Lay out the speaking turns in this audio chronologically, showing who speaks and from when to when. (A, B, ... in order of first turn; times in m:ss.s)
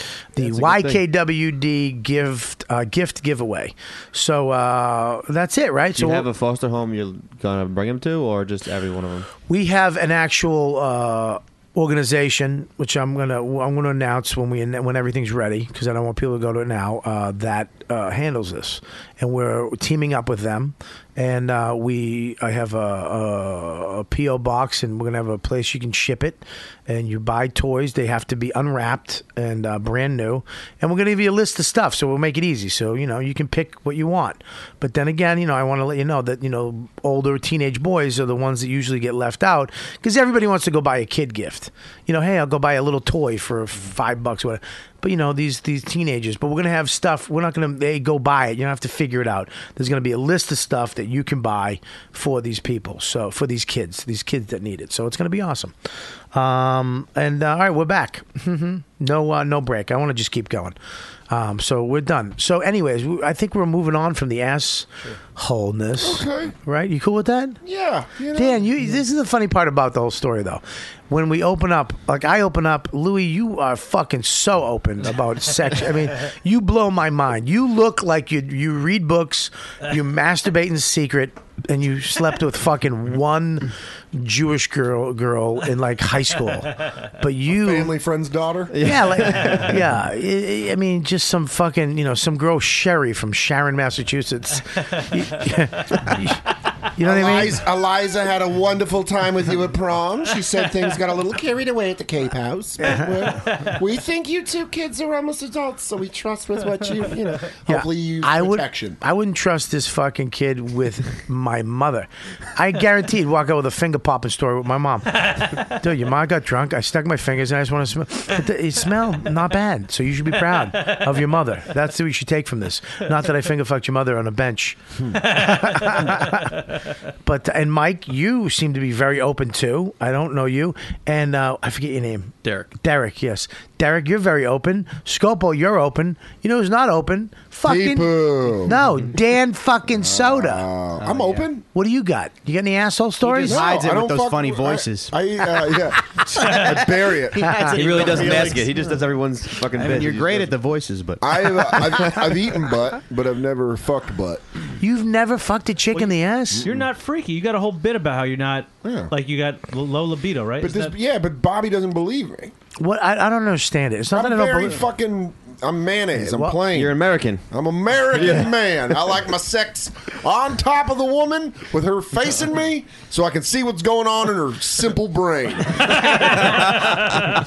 0:00.4-0:06.3 A
0:00.4-0:01.0 B
0:06.0-0:09.3 B
0:09.5-0:55.7 A
0:56.3-1:00.7 A
1:01.3-1:07.6 A
1:06.0-1:06.5 C
1:07.6-1:08.6 C
1:08.3-1:27.9 A
1:27.5-1:28.8 C
1:28.7-1:29.9 B
1:28.8-1:36.4 A
1:36.9-1:37.6 A
1:37.0-1:40.6 C
1:40.4-1:47.8 D
1:46.7-1:49.0 C
1:47.7-2:06.5 A
2:05.1-2:06.5 E
2:07.2-2:20.7 A
2:17.6-2:18.8 C
2:20.0-2:21.6 C
2:21.0-2:21.5 F
2:21.7-2:23.7 A
2:23.2-2:25.8 F
2:23.4-2:28.4 C
2:26.3-2:28.9 F
2:27.4-2:27.8 A
2:27.7-2:30.5 B
2:29.7-2:32.0 F
2:31.2-2:34.4 C
2:34.8-2:36.7 A
2:36.6-2:36.9 C
2:36.6-2:40.9 E
2:38.8-2:39.1 C
2:40.6-2:42.5 C
2:42.8-2:44.8 A
2:44.1-2:56.9 C
2:46.2-2:46.6 A
2:46.6-2:47.5 B
2:48.1-2:48.5 B
2:56.8-2:57.2 E